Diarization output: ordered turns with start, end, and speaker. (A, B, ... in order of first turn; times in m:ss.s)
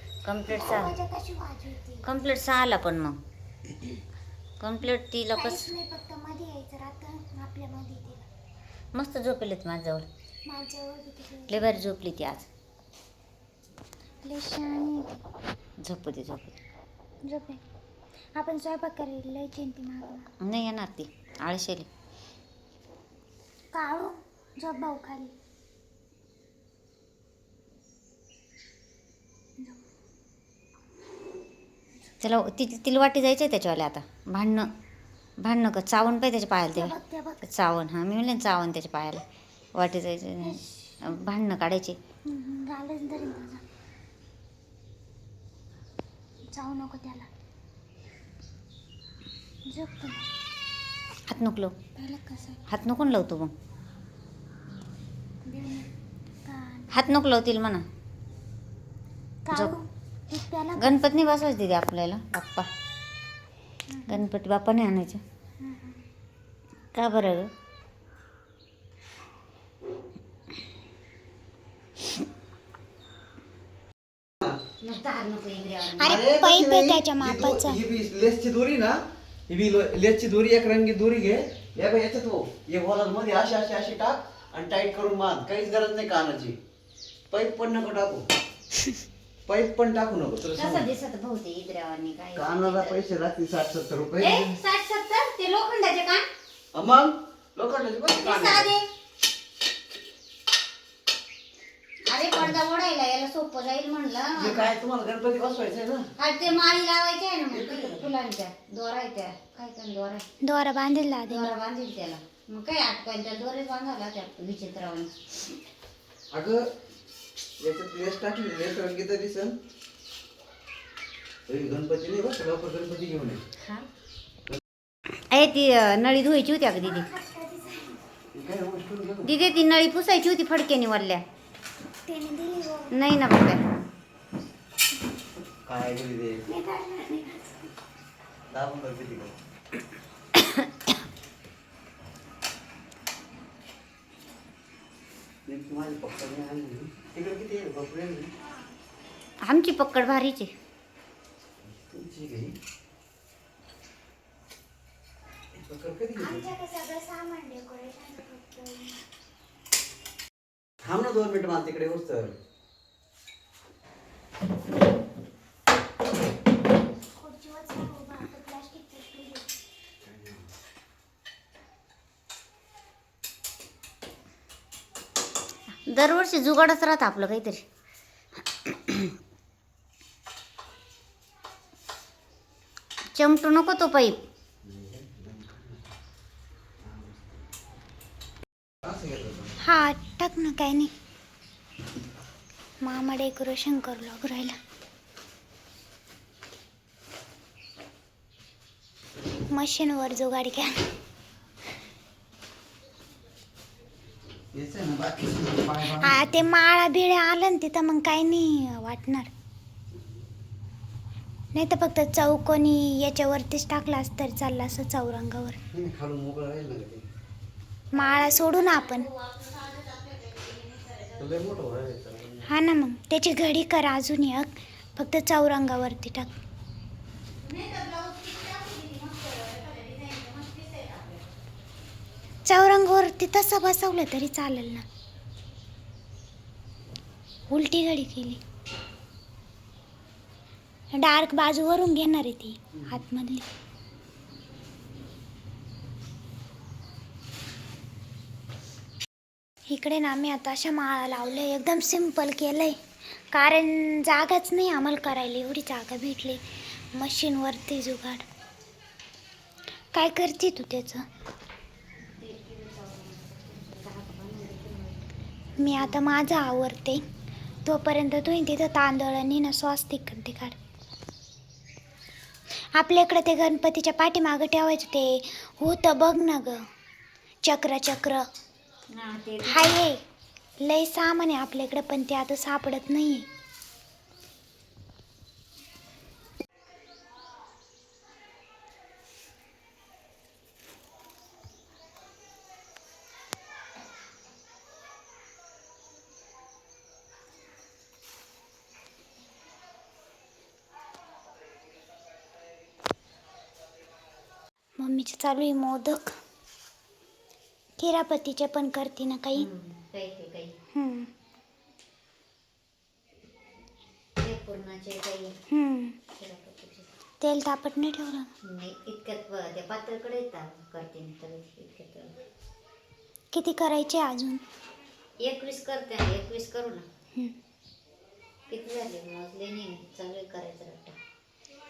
0:00.2-0:00.9 A
0:00.5-0:02.0 B
0:02.0-0:03.2 A
0:04.6-0:05.7 A
0:05.3-0:08.3 B
0:08.9-0:10.1 A
0:10.5-0:11.8 B
0:11.5-0:12.5 A
0:14.2-0:15.2 B
0:15.8-0:16.6 A
0:17.2-0:17.6 B
0:18.4-0:20.3 B
0:20.4-0:21.9 A
0:23.7-0:25.3 B
0:32.2-0:34.7 A
0:35.4-0:42.0 A
0:36.7-0:37.4 B
0:40.4-0:41.2 B
0:42.2-0:43.6 B
0:46.5-0:47.3 B
0:49.7-0:50.3 B
0:51.3-0:51.7 A
0:52.0-0:52.6 B
0:52.7-0:53.5 A
0:55.4-0:55.9 B
0:56.4-0:56.9 B
0:56.9-0:57.8 A
0:59.4-1:01.1 B
1:00.8-1:02.7 A
1:03.9-1:04.2 B
1:04.1-1:05.2 A
1:05.6-1:06.0 B
1:06.9-1:07.5 A
1:14.8-1:16.2 A
1:16.0-1:17.8 B
1:16.0-1:26.6 C
1:27.3-1:28.2 C
1:29.5-1:30.9 C
1:30.5-1:33.0 A
1:32.4-1:34.5 C
1:34.2-1:36.3 A
1:36.7-1:38.7 C
1:38.2-1:38.8 A
1:42.1-1:44.7 A
1:44.4-1:46.1 C
1:46.2-1:50.2 A
1:47.5-1:48.1 C
1:50.4-1:51.5 B
1:51.3-1:55.1 A
1:56.3-1:56.7 C
1:57.6-1:59.6 C
2:01.5-2:03.4 C
2:05.3-2:07.1 A
2:06.8-2:08.0 B
2:08.3-2:09.3 C
2:09.2-2:11.2 A
2:12.1-2:13.0 B
2:12.9-2:13.6 A
2:15.7-2:16.4 C
2:16.5-2:17.7 B
2:18.5-2:19.3 C
2:25.5-2:28.3 C
2:29.4-2:30.5 A
2:31.6-2:32.6 C
2:35.6-2:36.5 C
2:36.2-2:39.0 B
2:40.8-2:42.3 C
2:47.2-2:49.5 B
2:50.0-2:50.4 C
2:55.9-2:57.6 A
2:58.7-2:59.1 A
3:03.2-3:04.2 A
3:04.6-3:05.8 C
3:06.8-3:07.4 C
3:08.8-3:09.6 C
3:09.6-3:10.9 B
3:12.8-3:14.6 B
3:19.5-3:20.8 B
3:24.5-3:26.2 C
3:25.9-3:29.3 B
3:31.5-3:35.6 B
3:35.7-3:37.0 C
3:37.9-3:39.1 B
3:37.9-3:41.2 A
3:41.2-3:42.5 C
3:42.4-3:46.3 B
3:47.4-3:51.2 A
3:52.5-3:54.8 B
3:57.5-3:58.4 B
4:00.9-4:03.5 B
4:09.7-4:12.8 B
4:13.3-4:16.4 B
4:16.9-4:18.2 B
4:19.9-4:21.0 B
4:22.1-4:25.0 A
4:25.6-4:27.0 B
4:25.6-4:26.1 A
4:27.6-4:30.6 B
4:32.8-4:36.6 B
4:37.4-4:38.2 B
4:38.9-4:39.8 A
4:39.4-4:40.0 B
4:40.6-4:43.3 B
5:04.8-5:06.2 B
5:07.8-5:09.5 B
5:09.3-5:10.6 A
5:10.7-5:11.1 B
5:14.2-5:15.4 A
5:15.5-5:16.0 B
5:16.1-5:16.9 A
5:17.2-5:18.3 B
5:18.4-5:22.1 A
5:23.3-5:24.4 B
5:25.2-5:26.8 A
5:28.5-5:30.9 A